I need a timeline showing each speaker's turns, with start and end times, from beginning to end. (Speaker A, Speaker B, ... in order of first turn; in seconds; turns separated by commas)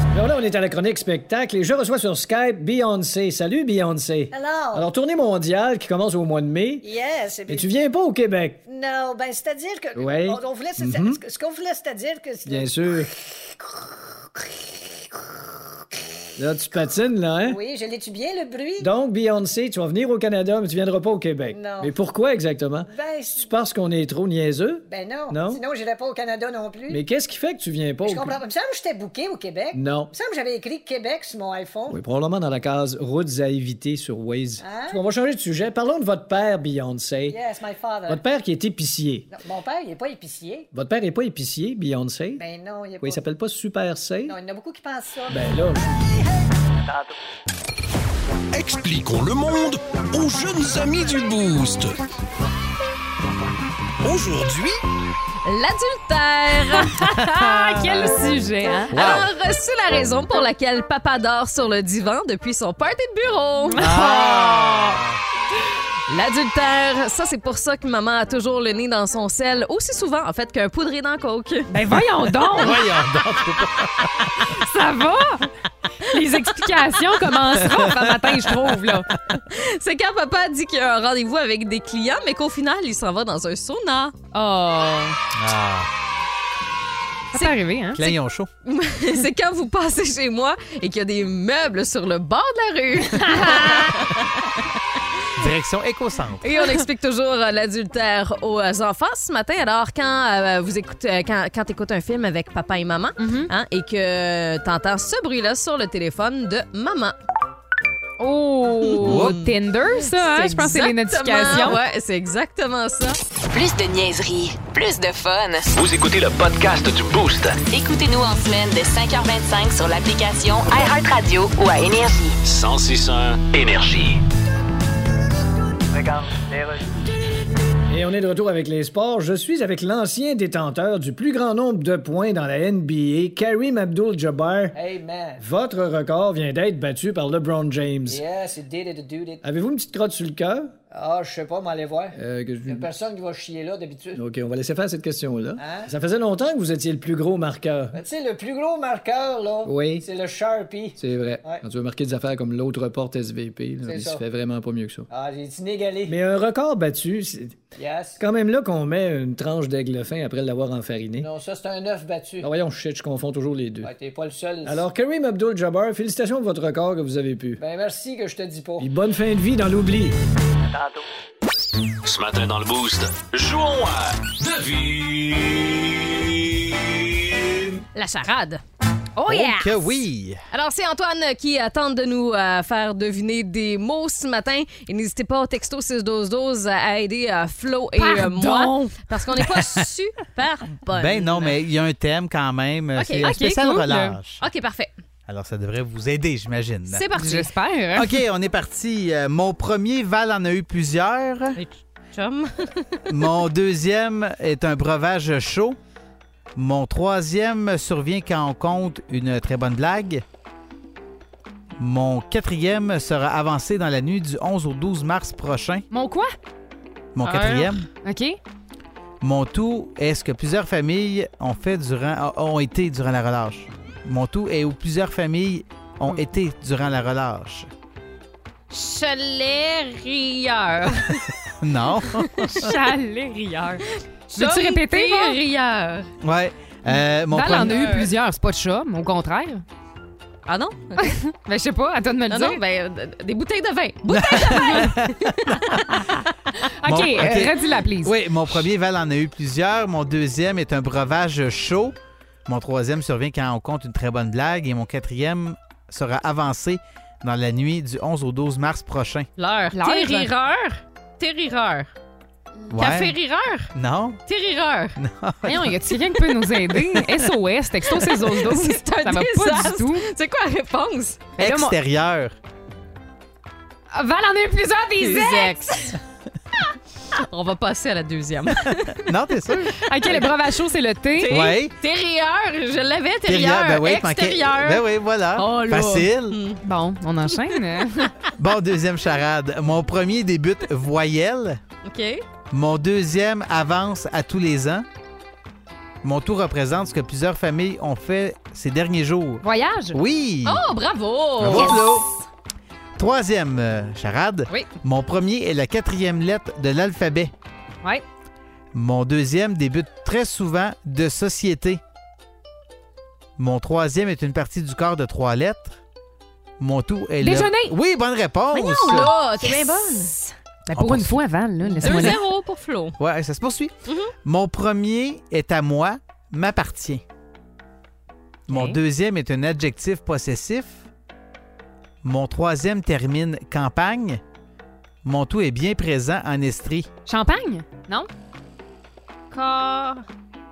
Speaker A: 0.1-6.9, Speaker B: 4.3-4.9, Speaker B: 6.8-7.7, Speaker A: 7.5-8.6, Speaker B: 8.6-13.1, Speaker A: 9.9-11.2, Speaker A: 12.4-13.1, Speaker A: 16.4-17.6, Speaker B: 17.4-18.9, Speaker A: 18.8-25.6, Speaker B: 21.5-21.9, Speaker B: 22.8-23.4, Speaker B: 24.8-27.0, Speaker A: 26.9-28.4, Speaker B: 28.0-32.0, Speaker A: 29.7-30.1, Speaker A: 31.9-37.4, Speaker B: 34.6-35.0, Speaker B: 37.3-38.2, Speaker A: 38.1-39.3, Speaker B: 39.3-40.7, Speaker A: 40.7-42.4, Speaker B: 42.3-43.2, Speaker A: 43.0-44.4, Speaker B: 44.2-45.6, Speaker A: 45.3-46.1, Speaker C: 48.5-52.0, Speaker C: 54.0-54.8, Speaker D: 55.4-57.8, Speaker E: 57.2-57.8, Speaker F: 57.4-58.9, Speaker E: 58.9-59.3, Speaker D: 58.9-64.5, Speaker F: 63.7-65.0, Speaker E: 63.8-65.2, Speaker D: 66.1-71.7, Speaker F: 71.7-72.9, Speaker E: 72.5-74.3, Speaker F: 74.4-75.5, Speaker F: 76.0-79.2, Speaker E: 77.6-78.6, Speaker D: 79.5-84.2, Speaker F: 84.3-85.2, Speaker E: 85.3-85.9, Speaker F: 87.3-88.1, Speaker E: 87.9-88.5, Speaker D: 88.6-94.7, Speaker F: 93.1-94.1, Speaker E: 95.4-96.5, Speaker D: 96.4-107.2, Speaker F: 103.2-103.5, Speaker F: 108.2-111.8, Speaker D: 108.8-113.2, Speaker E: 109.0-109.4, Speaker G: 113.5-115.7, Speaker H: 115.8-117.6, Speaker G: 117.7-122.4, Speaker H: 122.5-124.2, Speaker B: 125.9-127.0, Speaker A: 127.9-134.8, Speaker B: 134.7-135.4, Speaker A: 135.4-138.2, Speaker B: 138.1-139.4, Speaker A: 139.4-140.7, Speaker B: 140.9-144.2, Speaker A: 142.2-142.9, Speaker A: 144.1-148.0, Speaker B: 145.6-145.9, Speaker B: 147.9-151.6, Speaker A: 149.6-150.1, Speaker A: 151.0-155.1, Speaker B: 153.8-154.2, Speaker B: 155.1-156.2, Speaker A: 156.1-157.6, Speaker B: 157.7-158.2, Speaker A: 158.2-161.3, Speaker B: 161.2-162.5, Speaker A: 162.4-163.9, Speaker B: 163.8-164.8, Speaker A: 164.6-167.6, Speaker B: 167.6-168.9, Speaker A: 168.8-170.2, Speaker B: 170.7-171.0, Speaker H: 172.0-177.7, Speaker D: 177.9-178.6, Speaker F: 179.2-180.0, Speaker E: 179.2-180.4, Speaker D: 180.5-191.6, Speaker F: 187.9-189.0, Speaker E: 189.4-189.8, Speaker E: 190.9-194.4, Speaker D: 192.9-193.4, Speaker F: 193.2-194.2, Speaker D: 194.4-194.9, Speaker E: 195.3-197.1, Speaker D: 196.9-197.5, Speaker F: 197.1-198.2, Speaker E: 197.9-201.6, Speaker D: 201.6-203.0, Speaker E: 203.1-205.8, Speaker E: 206.5-210.2, Speaker E: 211.8-215.8, Speaker F: 215.9-216.3, Speaker E: 217.1-217.8, Speaker D: 217.2-217.8, Speaker F: 218.0-218.4, Speaker E: 219.2-227.7, Speaker D: 228.7-231.3, Speaker E: 231.6-232.7, Speaker F: 232.5-233.8, Speaker D: 234.3-236.1, Speaker F: 234.3-235.4, Speaker E: 236.2-237.9, Speaker F: 237.3-239.6, Speaker D: 237.4-238.1, Speaker D: 240.4-241.1, Speaker F: 241.0-242.6, Speaker D: 242.3-246.0, Speaker E: 244.1-246.0, Speaker F: 246.8-248.2, Speaker E: 246.8-251.9, Speaker E: 252.4-259.3, Speaker D: 259.4-261.9, Speaker F: 259.7-260.3, Speaker D: 262.7-263.7, Speaker E: 262.7-263.1, Speaker E: 263.7-264.2, Speaker D: 264.2-265.0, Speaker E: 264.9-265.8, Speaker F: 265.4-270.0, Speaker D: 267.9-271.3, Speaker F: 271.4-271.8, Speaker E: 271.4-272.3, Speaker F: 273.9-275.9, Speaker D: 275.0-275.9, Speaker D: 277.1-279.1, Speaker E: 278.5-280.2, Speaker F: 279.8-281.4, Speaker D: 281.1-286.6, Speaker E: 281.3-281.7, Speaker E: 283.2-286.4, Speaker F: 286.6-288.1, Speaker E: 288.3-291.6, Speaker D: 291.8-292.2, Speaker E: 292.5-294.9, Speaker E: 296.0-300.6, Speaker F: 299.4-300.0, Speaker D: 300.4-302.1, Speaker E: 301.4-302.1, Speaker F: 301.5-301.8, Speaker E: 303.0-307.3, Speaker E: 308.7-311.8, Speaker E: 313.4-315.8, Speaker E: 316.6-319.1, Speaker F: 317.2-317.7, Speaker D: 318.5-320.2, Speaker F: 320.7-322.2, Speaker E: 320.7-321.2, Speaker D: 321.8-323.0, Speaker E: 321.8-322.1, Speaker E: 323.0-327.0, Speaker D: 323.9-324.1, Speaker F: 328.5-328.8, Speaker E: 328.5-330.8, Speaker E: 332.0-334.2, Speaker E: 335.0-336.9, Speaker F: 337.1-338.1, Speaker D: 339.3-340.1